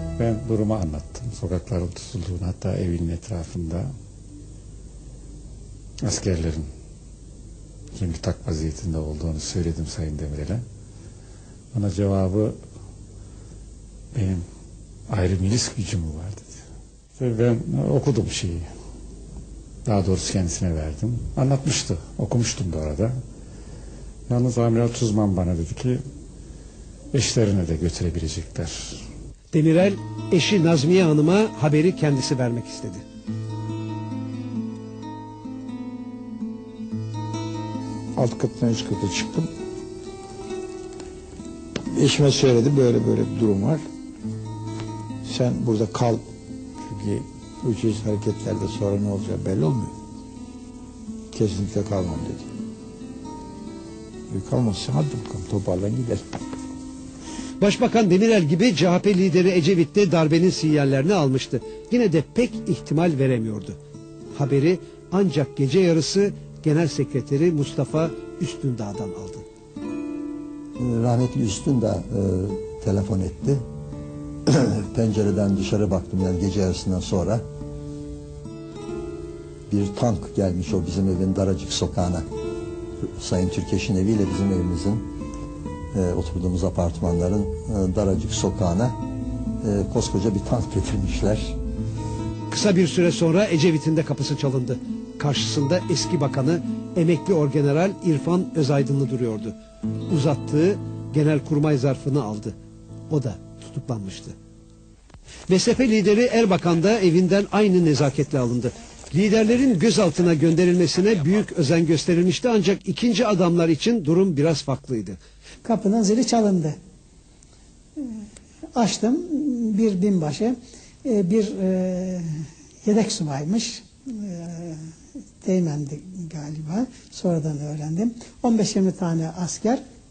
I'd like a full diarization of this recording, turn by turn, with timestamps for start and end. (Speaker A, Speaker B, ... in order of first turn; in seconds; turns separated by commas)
Speaker A: 0.2-3.9, Speaker A: 6.0-6.6, Speaker A: 7.9-10.6, Speaker A: 11.7-12.6, Speaker A: 14.1-14.4, Speaker A: 15.1-16.6, Speaker A: 17.2-18.6, Speaker A: 19.9-23.1, Speaker A: 24.3-26.0, Speaker A: 27.1-29.0, Speaker B: 29.5-33.0, Speaker C: 38.1-39.5, Speaker C: 41.9-43.8, Speaker C: 45.2-46.2, Speaker C: 46.8-49.9, Speaker C: 51.3-52.5, Speaker C: 54.3-56.4, Speaker B: 57.6-63.8, Speaker B: 64.3-69.4, Speaker D: 70.8-73.6, Speaker D: 74.5-77.4, Speaker D: 79.7-82.2, Speaker D: 83.2-85.0, Speaker D: 85.9-89.0, Speaker D: 89.6-91.5, Speaker B: 92.5-99.5, Speaker B: 100.1-102.5, Speaker B: 103.1-104.3, Speaker B: 105.5-115.2, Speaker E: 115.6-116.8, Speaker E: 118.8-122.2, Speaker E: 122.8-124.8, Speaker E: 125.4-129.8